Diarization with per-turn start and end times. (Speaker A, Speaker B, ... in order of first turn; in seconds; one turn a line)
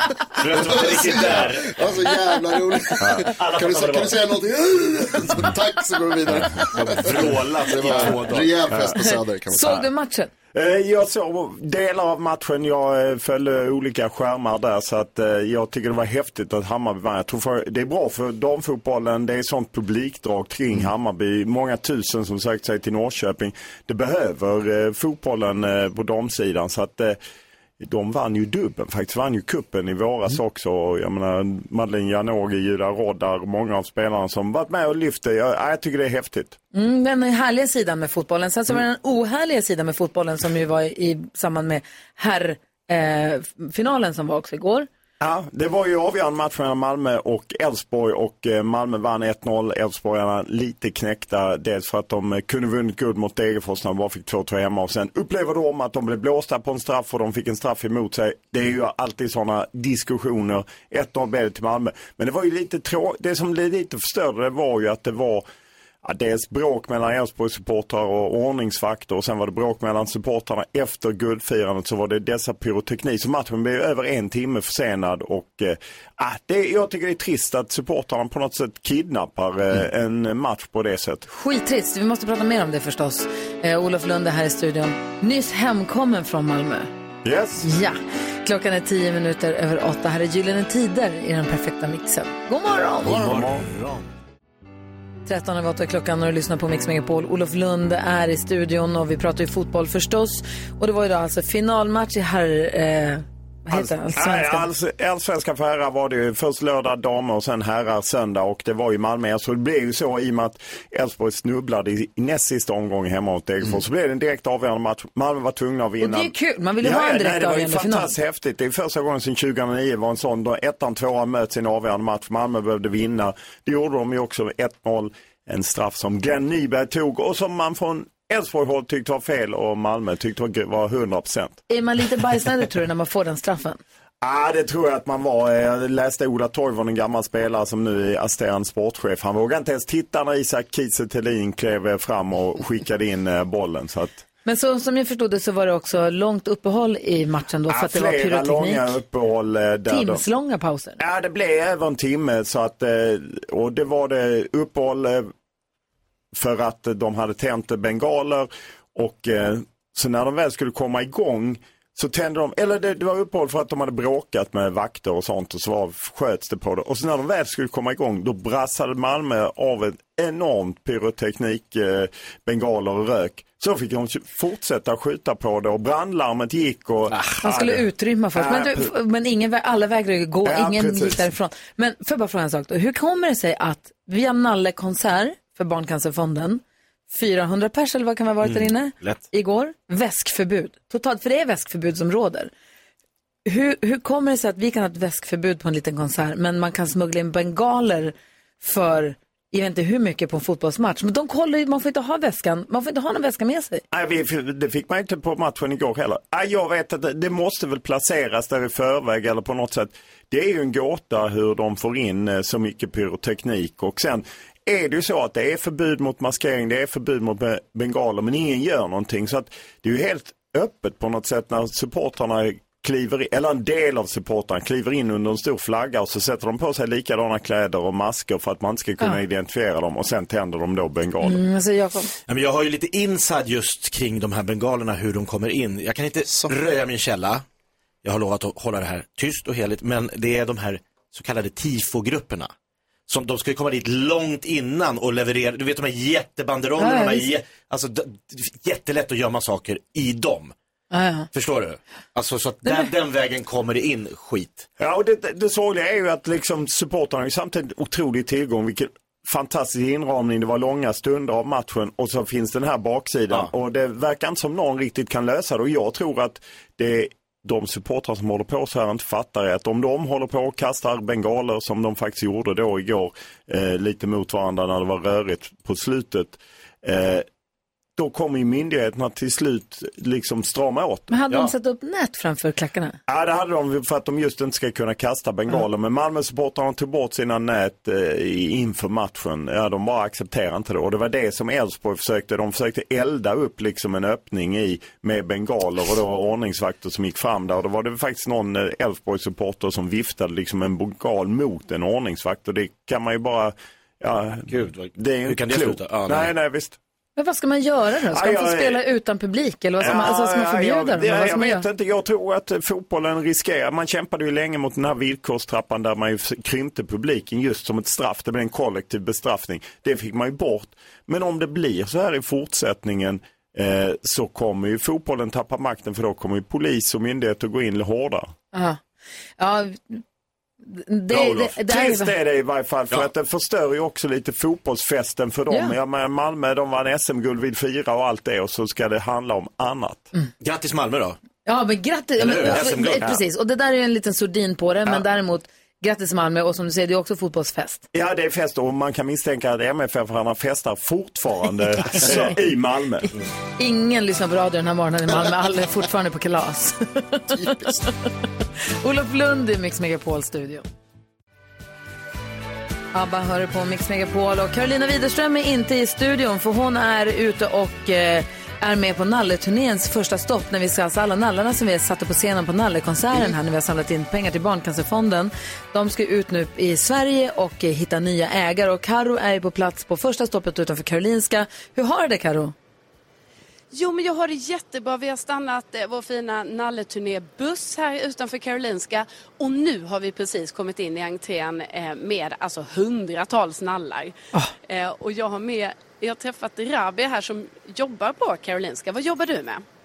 Speaker A: 0.4-2.0
Speaker B: 0.5-9.8
Speaker A: 3.2-4.2
Speaker A: 6.7-8.7
Speaker C: 9.0-10.3
Speaker D: 10.5-27.2
Speaker D: 27.8-36.6
Speaker C: 36.7-44.9
Speaker D: 45.2-65.5
Speaker D: 66.0-81.3
Speaker C: 81.3-86.9
Speaker D: 87.2-87.7
Speaker C: 87.6-93.3
Speaker D: 93.1-93.6
Speaker A: 93.2-94.0
Speaker C: 95.3-104.7
Speaker D: 103.7-131.6
Speaker C: 116.0-118.1
Speaker C: 131.7-133.8
Speaker D: 134.2-144.2
Speaker C: 144.4-148.9
Speaker D: 147.7-150.2
Speaker C: 149.9-151.0
Speaker D: 151.0-155.3
Speaker D: 156.3-177.8
Speaker A: 177.1-177.4
Speaker C: 177.4-192.5
Speaker D: 178.3-178.9
Speaker D: 180.4-181.3
Speaker A: 188.4-189.2
Speaker C: 193.5-203.8
Speaker D: 203.9-231.4
Speaker C: 231.2-232.1
Speaker A: 232.3-237.4
Speaker A: 238.0-242.5
Speaker A: 243.1-250.5
Speaker C: 246.8-247.3
Speaker C: 250.9-251.3
Speaker A: 251.3-254.7
Speaker C: 252.7-252.9
Speaker D: 254.8-277.3
Speaker D: 278.0-281.1
Speaker C: 281.1-283.0
Speaker D: 283.1-306.8
Speaker A: 304.5-306.3
Speaker C: 307.2-311.6
Speaker D: 308.1-308.8
Speaker D: 309.8-328.3
Speaker C: 328.5-328.8
Speaker C: 329.4-330.0
Speaker C: 330.7-332.1
Speaker D: 331.1-340.1
Speaker C: 335.5-335.8
Speaker A: 340.4-341.2
Speaker C: 341.4-347.9
Speaker A: 342.2-343.2
Speaker D: 347.9-353.1
Speaker A: 351.9-352.3
Speaker C: 353.6-358.0
Speaker B: 357.3-357.8
Speaker C: 358.7-360.6
Speaker C: 362.9-382.6
Speaker E: 383.7-394.1
Speaker E: 394.7-399.6